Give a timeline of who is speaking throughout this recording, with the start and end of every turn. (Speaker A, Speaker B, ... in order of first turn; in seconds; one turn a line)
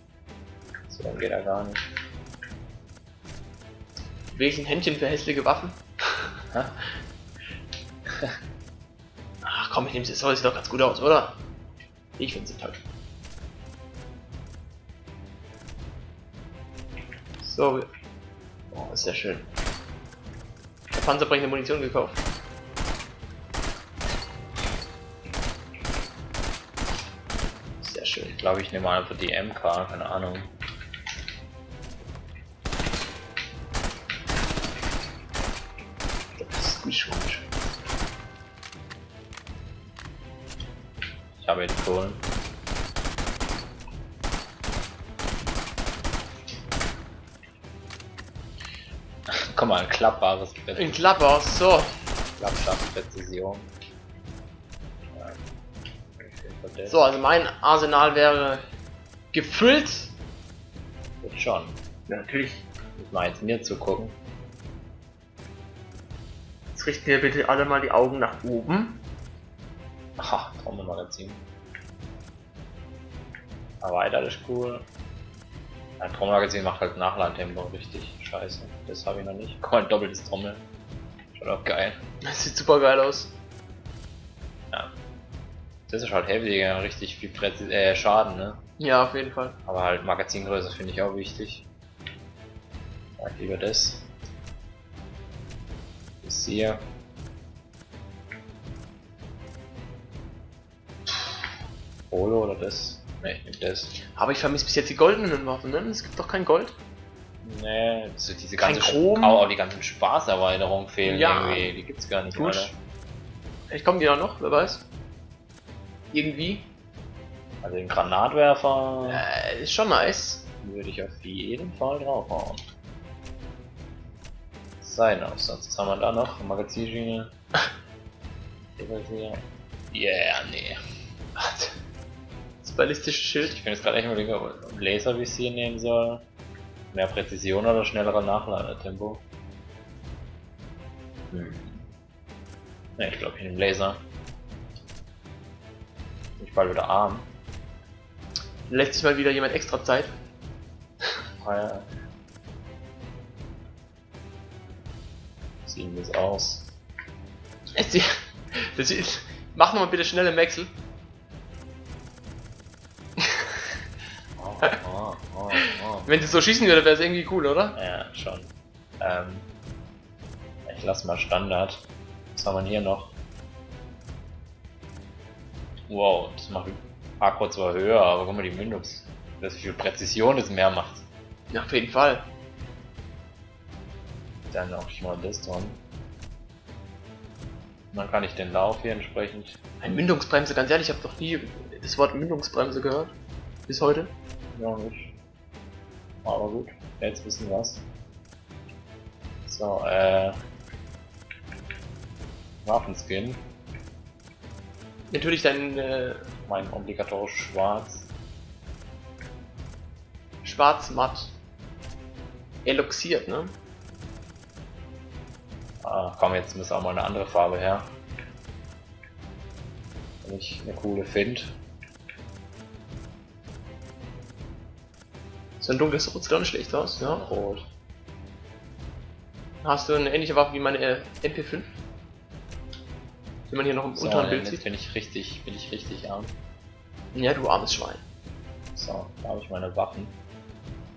Speaker A: 0.9-1.8
Speaker B: 4.3-6.3
Speaker A: 6.5-6.8
Speaker B: 9.4-11.4
Speaker B: 12.2-12.8
Speaker B: 17.4-17.9
Speaker B: 18.7-19.5
Speaker B: 20.9-22.2
Speaker B: 27.8-28.4
Speaker A: 28.3-30.5
Speaker B: 36.4-37.5
Speaker A: 41.4-42.2
Speaker A: 49.3-51.1
Speaker B: 50.8-51.9
Speaker A: 52.4-53.7
Speaker A: 55.1-55.4
Speaker A: 56.2-57.1
Speaker B: 56.9-58.7
Speaker B: 59.3-60.1
Speaker A: 61.2-61.8
Speaker B: 62.1-62.7
Speaker A: 63.0-64.2
Speaker B: 66.7-69.0
Speaker A: 70.2-71.4
Speaker A: 73.8-74.8
Speaker A: 76.0-80.7
Speaker A: 81.3-82.0
Speaker B: 82.2-83.4
Speaker A: 85.9-88.6
Speaker B: 88.8-89.6
Speaker A: 89.7-91.7
Speaker A: 93.2-94.1
Speaker A: 96.2-96.9
Speaker A: 102.1-104.0
Speaker B: 104.0-106.8
Speaker A: 107.4-112.8
Speaker B: 108.6-109.5
Speaker B: 111.0-111.7
Speaker B: 112.3-112.7
Speaker B: 113.7-114.9
Speaker B: 116.1-116.7
Speaker A: 117.6-119.3
Speaker B: 119.0-120.5
Speaker A: 120.6-122.6
Speaker A: 124.8-127.3
Speaker A: 128.8-130.8
Speaker B: 131.4-131.8
Speaker B: 132.6-133.5
Speaker A: 133.4-136.3
Speaker A: 136.9-139.2
Speaker A: 141.3-141.9
Speaker A: 143.0-144.0
Speaker A: 146.4-147.3
Speaker B: 148.7-150.1
Speaker A: 151.4-151.9
Speaker A: 155.7-156.7
Speaker B: 157.8-160.7
Speaker A: 164.4-166.1
Speaker B: 166.1-167.8
Speaker A: 167.8-169.5
Speaker A: 170.7-173.1
Speaker A: 175.9-181.1
Speaker B: 181.5-182.3
Speaker A: 184.5-185.8
Speaker A: 187.9-189.6
Speaker B: 189.8-193.2
Speaker B: 193.7-194.1
Speaker A: 194.5-195.1
Speaker A: 196.2-197.8
Speaker A: 199.5-200.4
Speaker A: 202.6-203.5
Speaker B: 205.1-206.3
Speaker A: 206.5-208.1
Speaker B: 210.4-211.4
Speaker B: 212.7-213.6
Speaker A: 215.8-217.9
Speaker A: 220.2-221.6
Speaker B: 225.6-227.2
Speaker A: 227.0-227.7
Speaker B: 229.6-231.7
Speaker B: 233.5-234.7
Speaker A: 233.9-236.4
Speaker B: 237.1-238.0
Speaker A: 238.8-240.2